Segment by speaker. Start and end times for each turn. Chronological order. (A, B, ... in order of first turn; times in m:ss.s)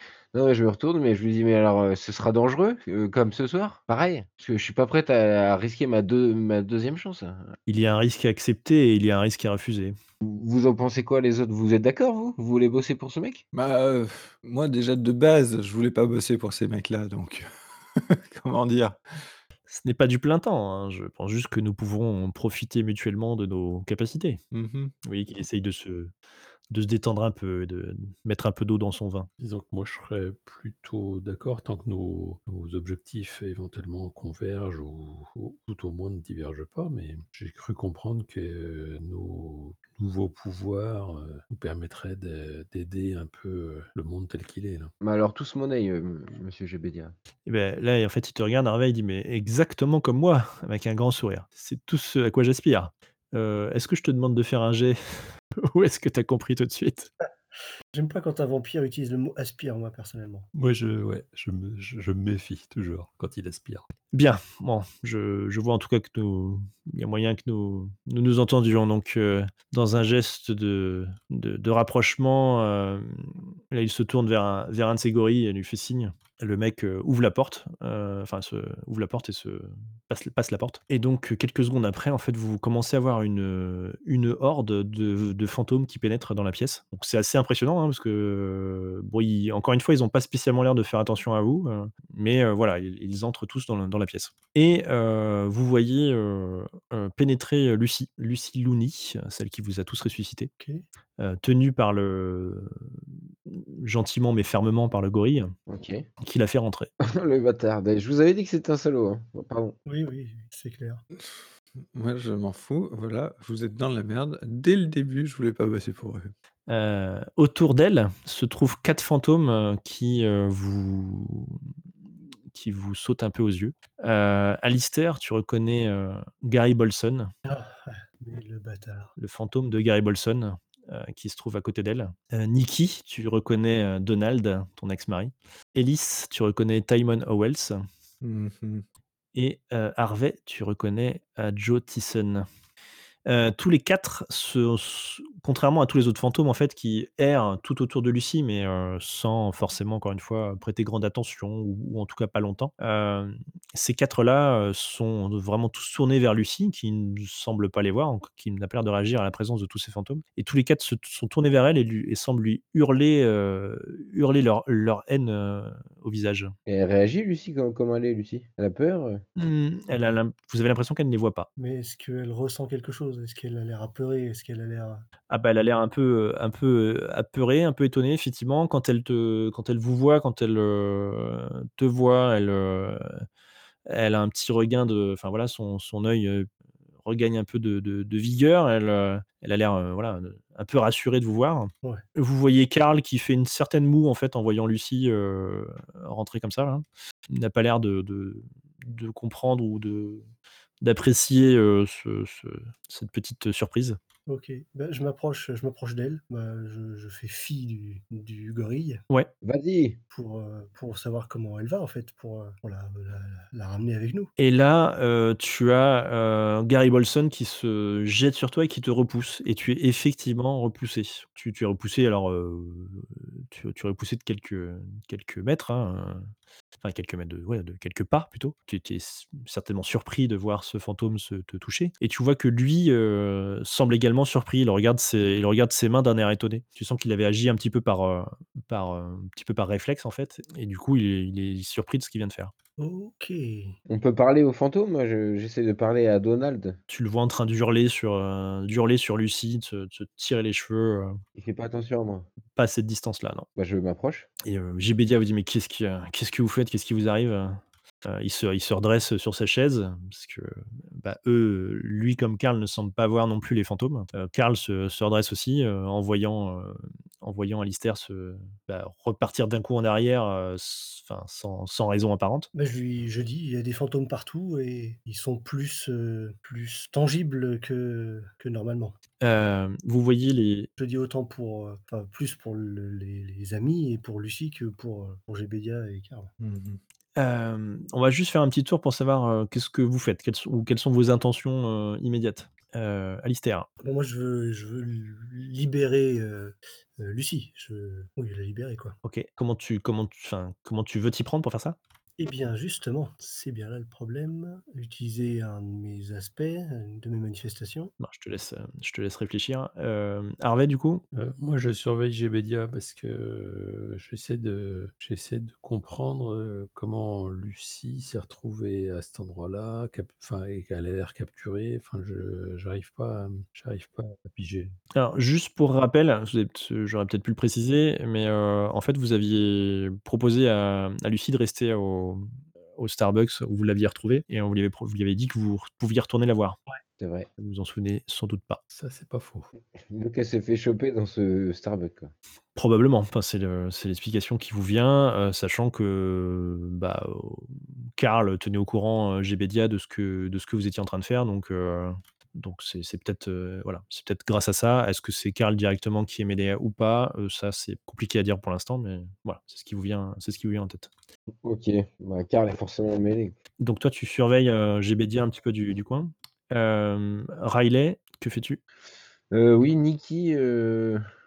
0:00.3-0:07.6 A
0:07.7-0:10.0 B
0:10.2-0:13.4 A
0:13.5-0:19.0 C
0:19.7-0:24.4 B
0:24.5-0:24.9 C
0:25.0-0:26.1 B
0:26.7-0:29.3 B
0:29.4-0:44.9 D
0:45.0-0:47.1 A
0:47.4-0:57.1 B
0:57.9-1:00.5 E
1:00.5-1:03.8 D
1:04.1-1:40.5 B
1:41.2-1:42.8 B
1:43.5-1:45.5 B
1:45.7-1:46.1 A
1:46.2-1:46.9 B
1:47.0-1:49.8 A
1:49.9-1:51.0 E
1:51.1-1:56.3 C
1:56.7-2:01.6 B
2:02.5-2:07.3 B
2:07.4-2:09.1 E
2:09.2-2:17.8 B
2:18.2-2:18.8 C
2:19.3-2:22.4 B
2:23.2-2:46.5 B
2:46.7-2:49.2 A
2:49.4-2:51.5 B
2:51.6-2:55.0 E
2:55.3-3:03.2 B
3:03.9-3:06.5 B
3:07.0-3:20.2 B
3:20.8-3:24.0 B
3:24.3-3:29.0 E
3:29.4-3:30.0 A
3:30.1-3:34.3 E
3:34.4-3:46.3 B
3:46.8-4:02.5 B
4:02.8-4:03.7 E
4:03.9-4:06.8 A
4:06.9-4:11.2 B
4:11.4-4:12.3 A
4:12.6-4:13.5 B
4:13.6-4:14.3 A
4:14.4-4:32.5 B
4:32.5-4:39.0 E
4:39.2-4:40.7 B
4:40.8-4:46.3 E
4:46.4-4:46.8 C
4:47.2-4:53.7 B
4:53.8-4:59.0 E
4:59.0-5:01.8 B
5:02.2-5:07.9 E
5:08.0-5:11.0 B
5:11.1-5:24.7 D
5:24.9-5:36.6 B
5:37.0-5:37.3 A
5:37.4-5:38.6 B
5:38.7-5:39.5 D
5:39.8-5:42.1 A
5:42.5-6:00.9 B
6:01.4-6:03.4 A
6:03.6-6:08.6 B
6:09.3-6:11.0 A